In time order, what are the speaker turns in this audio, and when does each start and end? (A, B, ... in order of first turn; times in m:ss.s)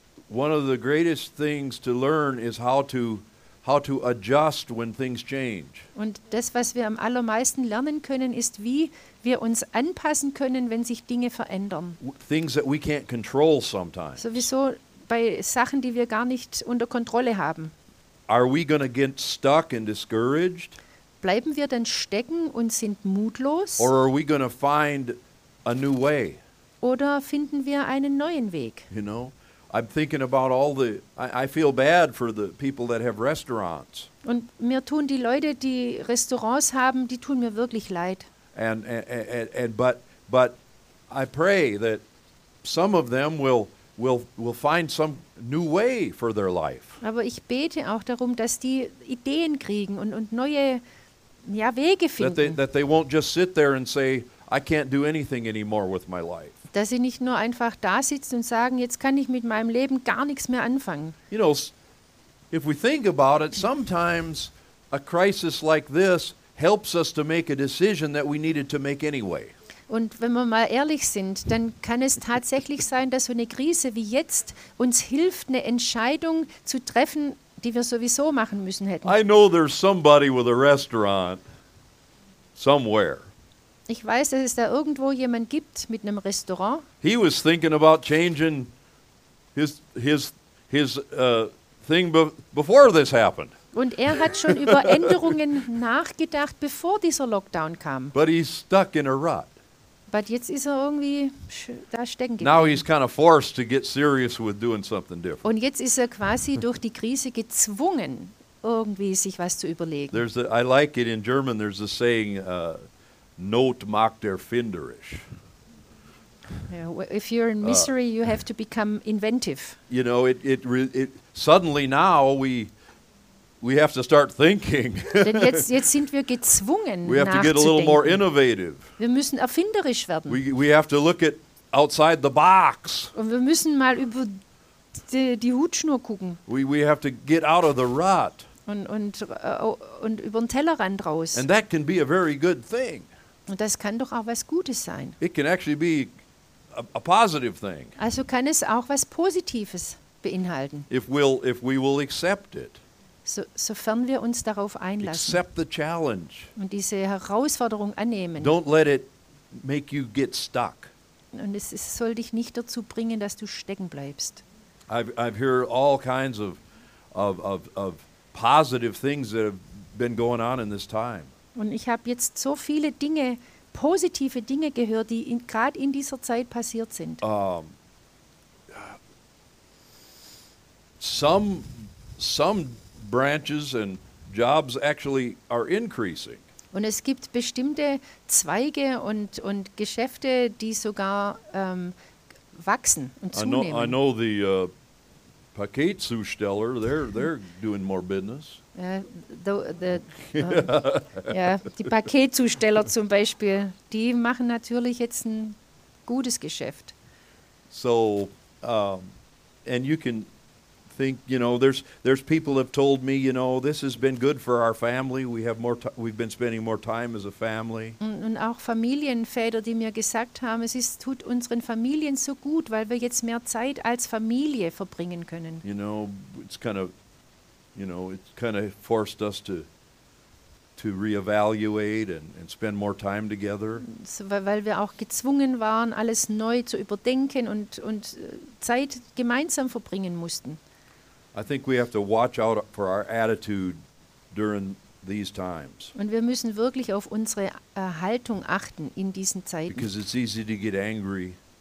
0:00.3-0:05.9 A
0:06.0-0:12.0 B
0:12.0-0:14.4 A
0:14.2-0:17.7 B
0:18.3-0:20.8 A
0:21.2-0:23.9 B
0:23.8-0:26.4 A
0:26.8-0:28.9 B
0:28.9-0:34.1 A
0:34.2-0:38.3 B
0:38.5-0:40.6 A
0:41.1-0:42.0 A
0:42.6-0:47.0 A
0:47.0-0:50.8 B
0:51.4-0:52.6 B
0:52.2-0:56.5 A
0:56.7-1:01.2 B
1:01.3-1:01.7 A
1:02.5-1:09.5 A
1:09.9-1:19.1 B
1:19.0-1:21.4 A
1:22.6-1:23.3 A
1:23.9-1:26.8 B
1:27.0-1:28.7 A
1:29.5-1:33.5 A
1:33.7-1:38.1 B
1:34.4-1:35.1 A
1:38.1-1:39.5 A
1:40.1-1:42.8 B
1:42.4-1:45.4 A
1:45.4-1:50.2 B
1:50.1-1:52.8 A
1:53.4-1:55.2 A
1:56.7-1:59.8 B
1:57.6-1:57.9 A
1:59.9-2:02.7 A
2:03.6-2:05.7 A
2:05.2-2:08.2 B
2:07.0-2:08.9 A
2:09.0-2:10.4 B
2:10.3-2:13.1 A
2:13.1-2:14.4 B
2:15.0-2:16.4 B
2:16.5-2:18.4 A
2:18.7-2:21.4 B
2:21.3-2:23.1 A
2:23.5-2:25.2 B
2:25.2-2:26.1 A
2:26.7-2:27.9 A
2:28.0-2:30.9 B
2:30.9-2:32.8 A
2:33.2-2:35.4 B
2:35.0-2:36.5 A
2:36.6-2:38.5 B
2:38.4-2:40.9 A
2:41.3-2:44.4 B
2:44.9-2:46.6 A
2:47.1-2:51.3 A
2:51.5-2:57.2 B
2:57.2-2:57.7 A
2:58.7-2:59.0 A
3:01.0-3:06.4 A
3:06.7-3:11.9 B
3:12.5-3:14.0 B
3:13.3-3:14.7 A
3:15.5-3:18.6 A
3:18.7-3:26.9 B
3:20.3-3:21.3 A
3:27.7-3:29.1 A
3:29.6-3:30.3 A
3:30.9-3:38.0 A
3:38.0-3:45.6 B
3:45.6-3:46.9 A
3:47.7-3:49.7 A
3:50.8-3:53.8 A
3:53.8-4:00.6 B
4:01.3-4:03.8 A
4:04.3-4:05.9 A
4:05.9-4:09.9 B
4:09.7-4:11.4 A